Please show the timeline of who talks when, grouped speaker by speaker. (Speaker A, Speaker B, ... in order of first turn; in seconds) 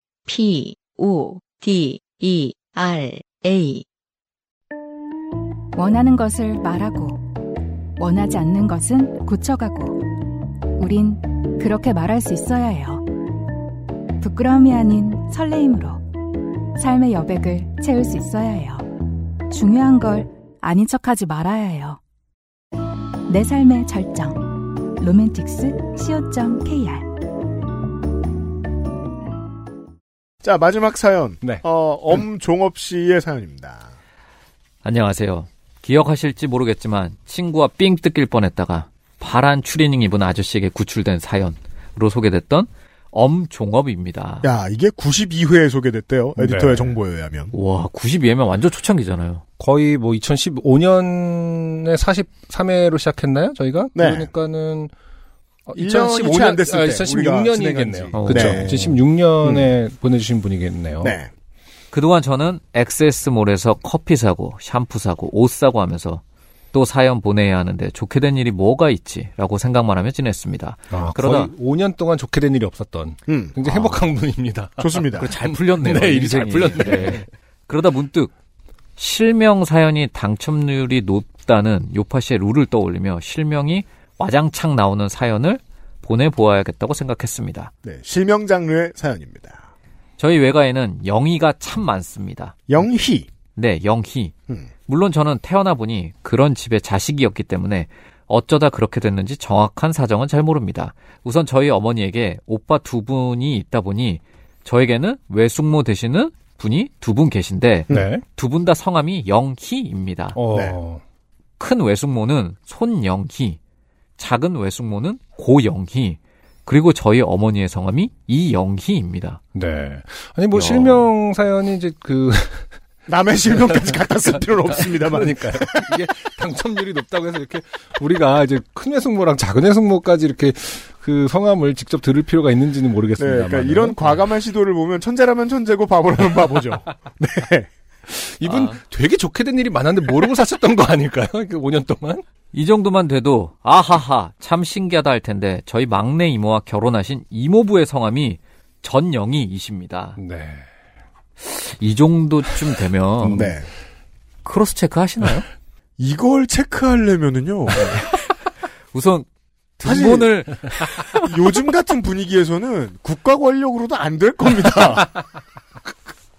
Speaker A: 0.3-3.9
Speaker B: 5.8-7.3, 8.0-10.1, 10.8-13.1, 14.2-16.0, 16.8-18.9, 19.5-22.0, 23.3-27.1
Speaker C: 30.4-33.9, 44.4-47.5, 54.0-54.3, 55.8-59.7, 61.0-61.3, 73.3-73.5, 74.8-75.3, 87.8-89.7, 92.7-93.3, 123.1-126.0, 133.2-137.7, 153.3-153.7, 156.0-158.0, 159.8-160.3, 161.2-165.1
Speaker D: 34.8-44.5, 47.5-49.4, 58.1-58.6, 61.9-66.2, 66.7-71.5, 73.6-74.0, 75.2-78.3, 79.0-87.7, 90.2-92.6, 93.6-94.3, 94.9-110.4, 111.6-113.6, 114.2-119.4, 120.5-121.1, 138.4-138.8, 142.5-150.2, 151.4-153.5, 154.4-155.5, 158.9-159.3, 159.8-161.3
Speaker E: 46.4-47.0, 49.6-54.9, 55.7-61.1, 70.9-77.3, 107.9-108.2, 110.3-111.0, 119.5-122.7, 123.5-124.0, 124.7-134.2, 138.1-142.2, 150.2-150.7, 153.2-153.5